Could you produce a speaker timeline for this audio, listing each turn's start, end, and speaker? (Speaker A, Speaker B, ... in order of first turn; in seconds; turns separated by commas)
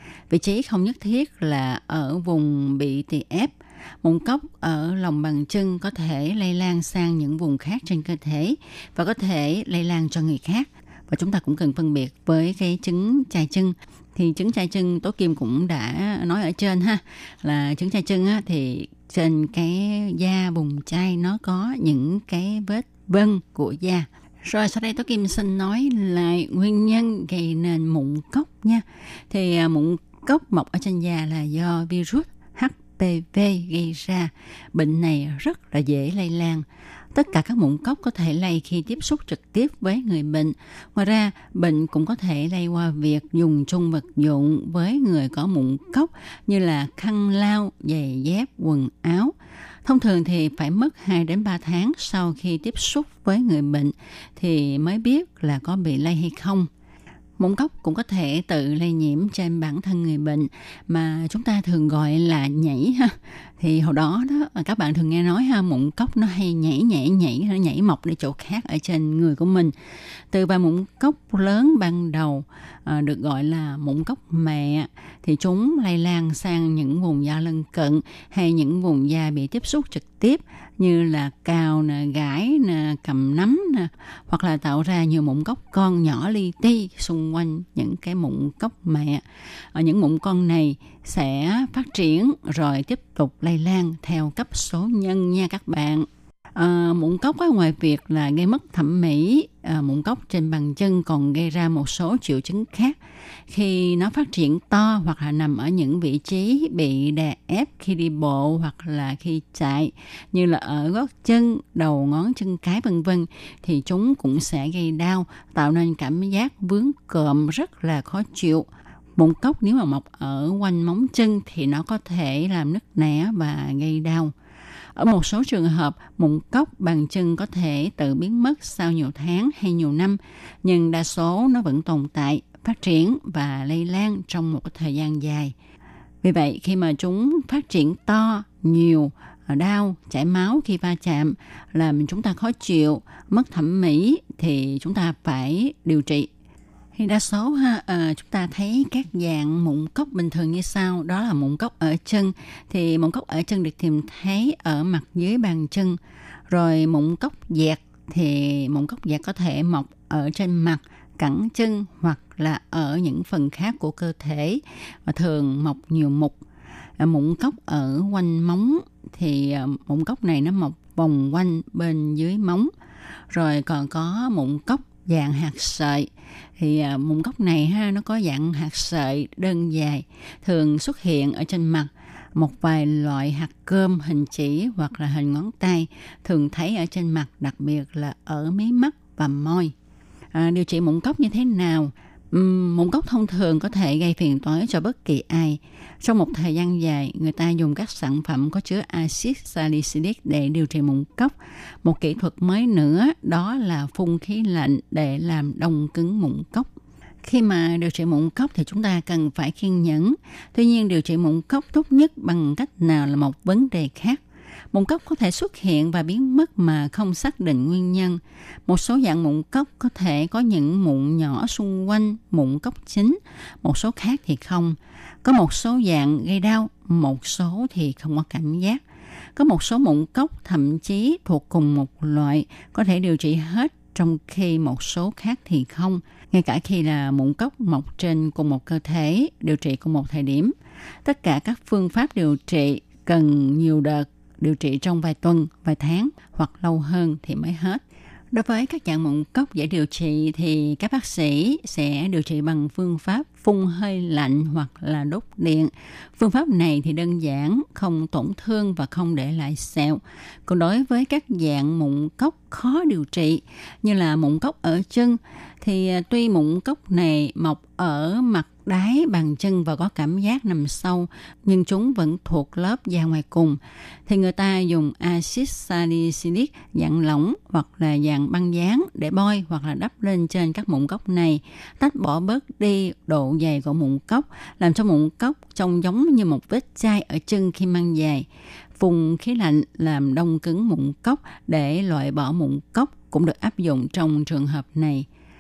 Speaker A: 0.3-56.7, Speaker A: 57.4-69.7, Speaker A: 70.3-89.2, Speaker A: 89.7-103.0, Speaker A: 103.5-124.3, Speaker A: 125.0-135.6, Speaker A: 136.2-146.3, Speaker A: 146.9-166.4, Speaker A: 167.0-172.7, Speaker A: 173.3-189.7, Speaker A: 190.3-206.7, Speaker A: 207.2-214.2, Speaker A: 214.7-228.8, Speaker A: 229.4-295.1